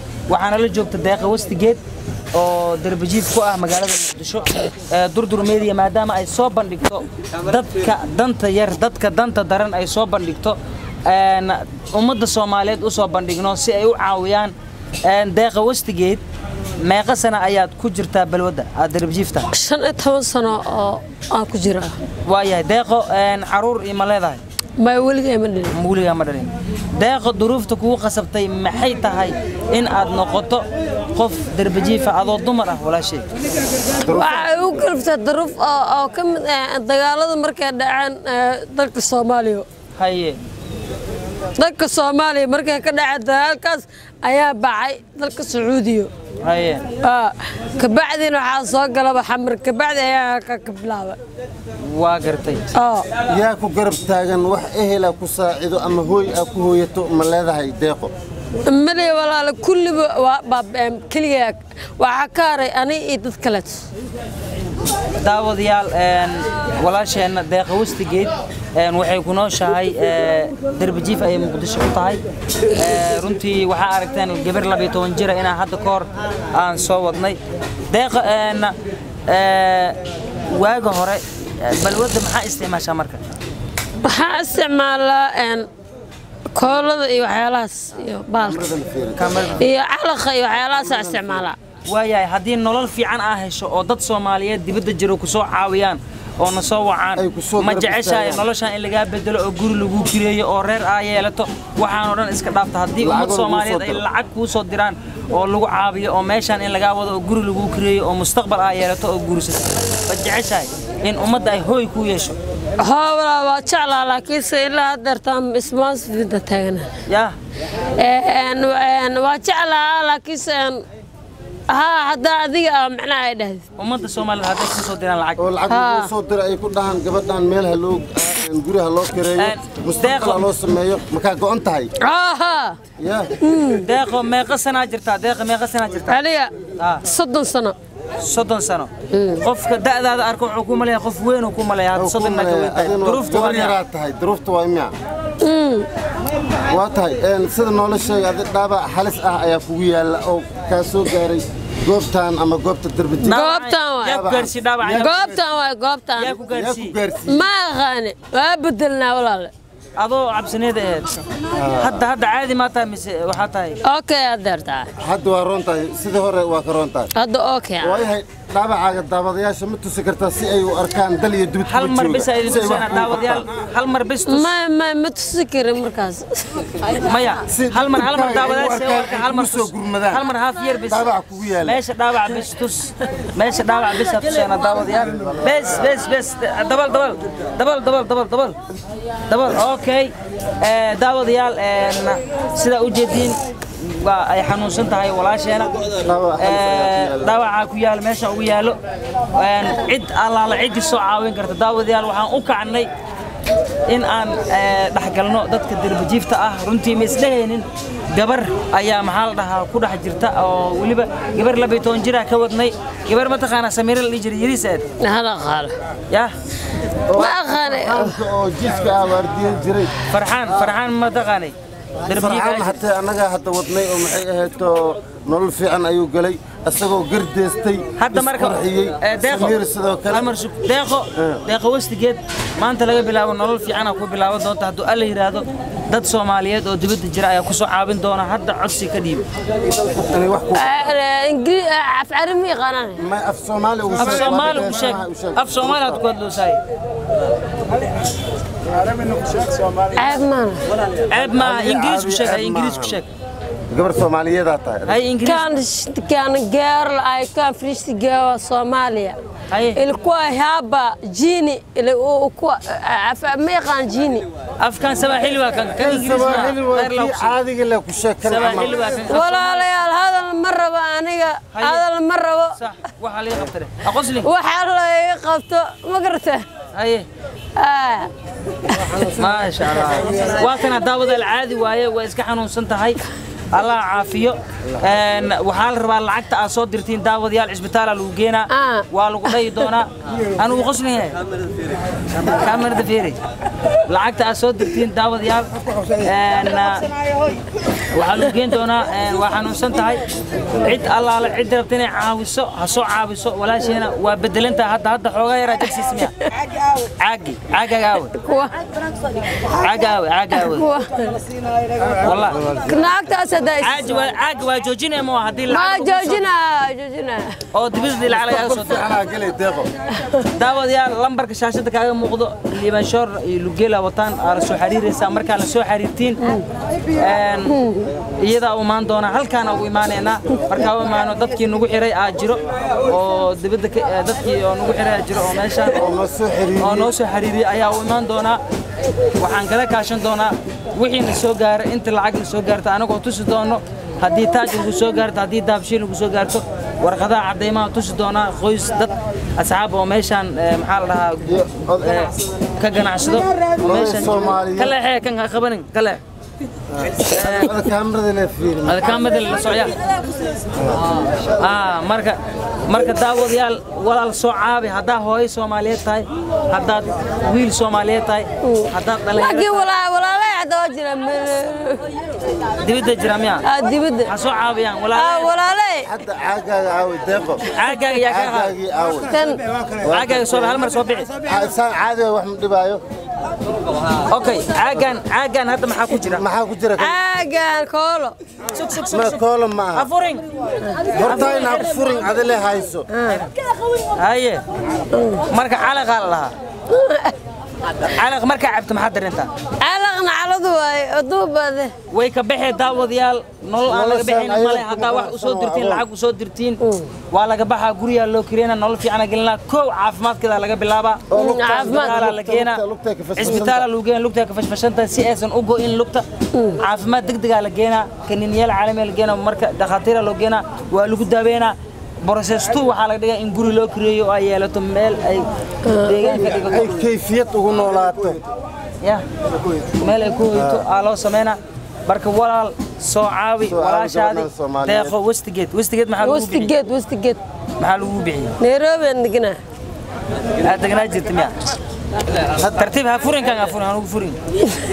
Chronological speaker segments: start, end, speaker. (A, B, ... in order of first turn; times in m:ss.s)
0:00.3-0:01.8 A
0:02.3-0:14.5 A
0:15.0-0:16.2 A
0:16.8-0:19.5 A
0:19.5-0:22.0 B
0:22.2-0:24.4 A
0:24.8-0:25.7 B
0:25.7-0:33.2 A
0:34.0-0:34.8 C
0:34.0-0:39.6 B
0:40.0-0:40.4 A
0:41.6-0:46.1 B
0:46.4-0:46.9 A
0:47.0-0:51.2 B
0:51.8-0:52.7 A
0:52.7-0:53.1 B
0:53.2-0:58.1 C
0:58.7-1:03.8 B
1:05.2-1:12.2 A
1:12.7-1:18.7 A
1:19.3-1:23.2 A
1:24.0-1:25.7 B
1:26.5-1:28.6 B
1:28.4-1:29.6 C
1:29.2-1:29.6 A
1:29.6-1:31.6 B
1:30.7-1:31.4 C
1:31.9-1:52.4 A
1:37.2-1:38.4 C
1:43.0-1:44.0 C
1:52.8-1:56.9 B
1:57.1-1:57.3 A
1:58.0-2:00.8 B
2:01.7-2:03.6 B
2:03.8-2:05.4 A
2:05.4-2:11.9 C
2:05.7-2:06.1 B
2:09.4-2:10.5 A
2:12.0-2:12.8 B
2:13.0-2:13.3 C
2:13.4-2:13.9 B
2:13.7-2:16.2 A
2:16.1-2:17.8 B
2:16.8-2:17.0 A
2:18.2-2:23.8 A
2:19.1-2:19.4 B
2:21.9-2:24.9 C
2:25.4-2:25.9 B
2:26.6-2:33.5 C
2:33.2-2:34.2 B
2:33.2-2:35.4 A
2:34.0-2:35.2 C
2:34.8-2:36.4 B
2:36.2-2:37.0 A
2:36.5-2:37.5 C
2:37.2-2:39.5 B
2:40.0-2:41.2 A
2:41.5-2:42.0 C
2:41.7-2:43.8 A
2:43.8-2:44.9 B
2:45.0-2:47.1 C
2:47.1-2:48.0 B
2:47.8-2:53.5 C
2:51.6-2:54.5 A
2:54.3-2:56.6 B
2:57.0-3:08.6 A
2:57.5-3:00.2 C
3:00.8-3:01.8 C
3:05.0-3:05.8 C
3:09.3-3:15.8 A
3:16.0-3:17.4 C
3:16.4-3:18.8 A
3:19.3-3:22.9 A
3:23.9-3:34.8 A
3:35.0-3:35.7 B
3:37.1-3:39.9 C
3:37.2-3:38.2 B
3:40.1-3:42.8 A
3:42.0-3:50.3 C
3:48.0-3:49.6 A
3:50.1-3:59.2 A
3:51.2-3:51.4 C
3:59.7-4:00.9 C
4:00.5-4:03.0 B
4:03.0-4:06.0 C
4:04.0-4:06.6 A
4:09.9-4:10.6 B
4:11.0-4:13.1 A
4:11.1-4:13.0 C
4:13.7-4:15.0 C
4:14.9-4:15.5 A
4:15.2-4:19.2 B
4:19.5-4:19.8 A
4:19.7-4:24.2 B
4:24.6-4:27.4 A
4:25.8-4:28.9 C
4:28.2-4:29.7 A
4:29.1-4:32.6 B
4:31.5-4:31.8 A
4:32.5-4:34.3 A
4:34.2-4:36.4 B
4:36.7-4:37.0 A
4:37.6-4:38.1 B
4:38.6-4:39.0 B
4:38.9-4:51.2 A
4:48.5-4:49.3 B
4:52.1-4:53.2 A
4:53.8-4:56.8 A
4:57.9-5:06.2 A
5:07.0-5:08.1 A
5:08.1-5:08.6 B
5:09.5-5:10.6 A
5:10.3-5:11.3 B
5:11.9-5:12.5 A
5:12.3-5:12.8 C
5:12.6-5:14.1 B
5:13.6-5:16.2 A
5:15.5-5:17.4 B
5:17.5-5:18.9 A
5:18.1-5:19.7 C
5:20.2-5:26.4 A
5:27.0-5:27.6 A
5:27.6-5:27.9 B
5:28.2-5:35.9 A
5:35.7-5:36.9 C
5:36.6-5:38.4 A
5:39.2-5:56.0 A
5:51.2-5:52.1 C
5:53.6-5:54.8 C
5:56.7-5:59.2 C
5:57.0-5:57.6 A
5:58.6-5:59.8 A
6:00.6-6:00.8 C
6:01.2-6:09.6 A
6:08.4-6:11.9 B
6:12.6-6:13.4 A
6:13.4-6:14.1 B
6:14.0-6:15.3 A
6:14.9-6:15.9 B
6:15.8-6:19.1 C
6:17.5-6:18.5 A
6:19.1-6:19.4 B
6:19.8-6:20.6 C
6:19.9-6:21.1 A
6:21.2-6:22.8 C
6:24.0-6:26.2 A
6:26.0-6:27.0 C
6:26.8-6:28.2 B
6:28.5-6:29.2 A
6:28.9-6:29.9 C
6:29.7-6:30.2 A
6:30.9-6:32.9 C
6:31.0-6:31.9 A
6:32.9-6:33.2 B
6:33.0-6:33.3 A
6:33.9-6:34.4 A
6:34.9-6:35.2 B
6:35.3-6:36.3 A
6:36.7-6:37.1 B
6:37.7-6:39.3 A
6:39.6-6:41.7 B
6:41.9-6:52.6 A
6:43.6-6:45.8 C
6:46.6-6:46.9 B
6:51.1-6:53.7 C
6:51.1-6:52.0 B
6:53.2-6:56.0 A
6:56.6-7:06.7 A
7:05.6-7:06.2 B
7:06.2-7:08.2 C
7:09.8-7:16.5 A
7:10.3-7:10.6 C
7:13.4-7:15.0 C
7:16.0-7:17.2 B
7:17.6-7:18.3 A
7:18.4-7:19.4 B
7:20.4-7:21.3 A
7:22.3-7:24.2 A